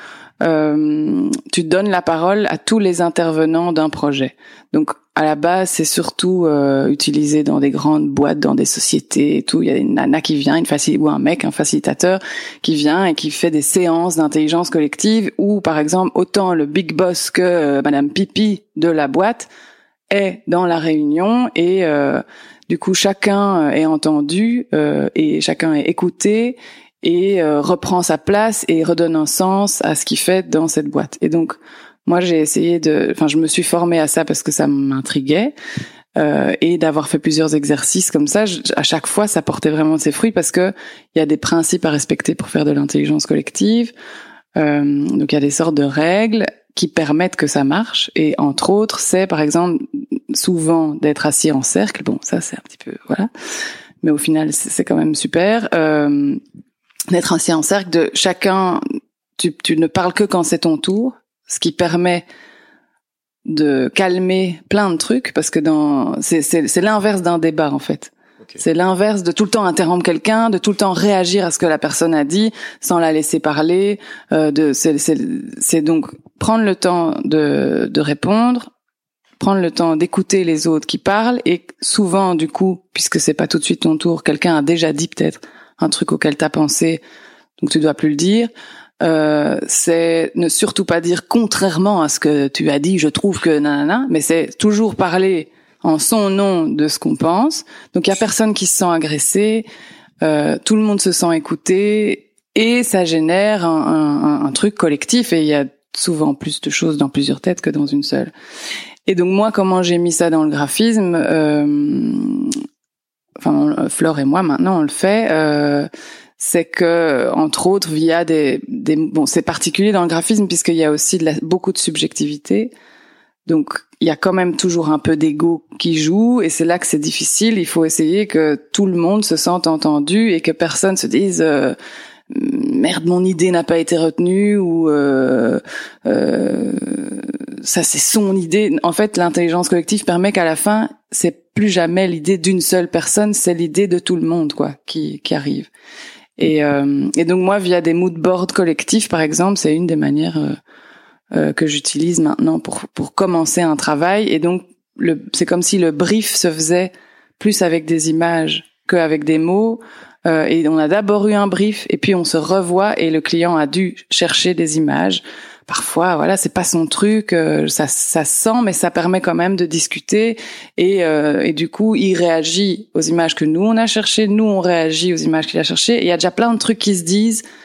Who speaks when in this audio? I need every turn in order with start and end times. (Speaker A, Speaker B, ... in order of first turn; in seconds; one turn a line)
Speaker A: 0.4-19.5
Speaker A: 20.1-35.5
Speaker A: 36.1-43.9
Speaker A: 44.5-53.3
Speaker A: 54.0-56.4
Speaker A: 57.1-58.8
Speaker A: 59.4-62.2
Speaker A: 63.5-78.7
Speaker A: 79.4-87.0
Speaker A: 87.6-88.5
Speaker A: 89.0-99.7
Speaker A: 100.2-108.3
Speaker A: 109.1-112.5
Speaker A: 113.4-122.7
Speaker A: 123.5-131.8
Speaker A: 132.3-145.7
Speaker A: 146.4-150.6
Speaker A: 151.3-177.4